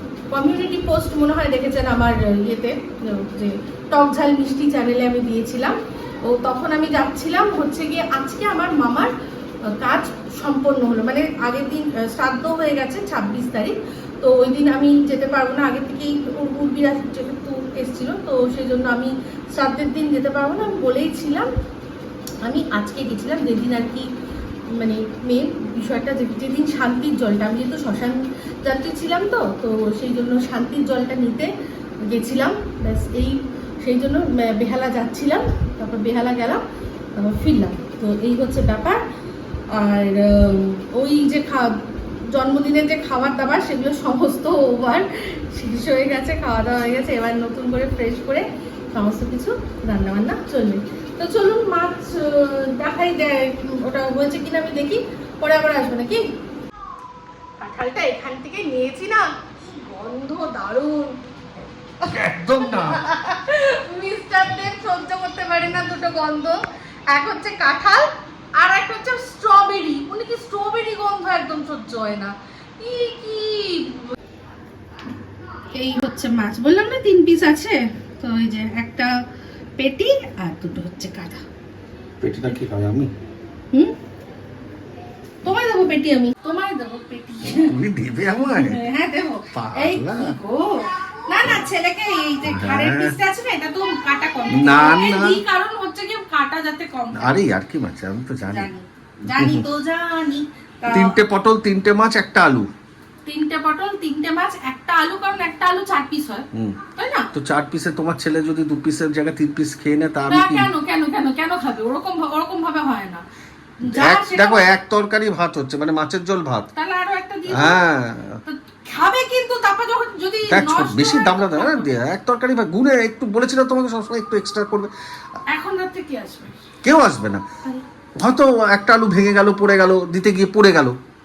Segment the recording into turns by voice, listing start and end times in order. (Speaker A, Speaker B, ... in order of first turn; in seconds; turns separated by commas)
Speaker A: 0.3-9.1, Speaker A: 9.6-21.5, Speaker A: 22.4-24.1, Speaker A: 24.7-31.5, Speaker A: 32.0-36.6, Speaker A: 37.1-39.0, Speaker A: 39.7-41.8, Speaker A: 42.3-56.2, Speaker A: 57.6-61.2, Speaker A: 62.0-74.1, Speaker B: 62.0-63.0, Speaker A: 75.7-79.2, Speaker A: 79.8-81.4, Speaker B: 82.2-83.1, Speaker A: 85.4-87.8, Speaker B: 87.4-88.8, Speaker A: 88.3-97.4, Speaker B: 89.5-90.4, Speaker B: 92.4-93.2, Speaker B: 94.5-95.4, Speaker B: 97.2-98.7, Speaker A: 98.5-101.2, Speaker B: 99.2-99.6, Speaker B: 100.9-102.7, Speaker A: 103.2-107.3, Speaker B: 107.3-110.7, Speaker A: 110.3-113.2, Speaker A: 113.8-114.7, Speaker B: 113.9-116.7, Speaker A: 116.7-117.8, Speaker B: 117.5-118.4, Speaker A: 118.4-121.9, Speaker B: 120.5-124.9, Speaker A: 125.5-126.6, Speaker B: 126.8-127.4, Speaker B: 128.2-131.0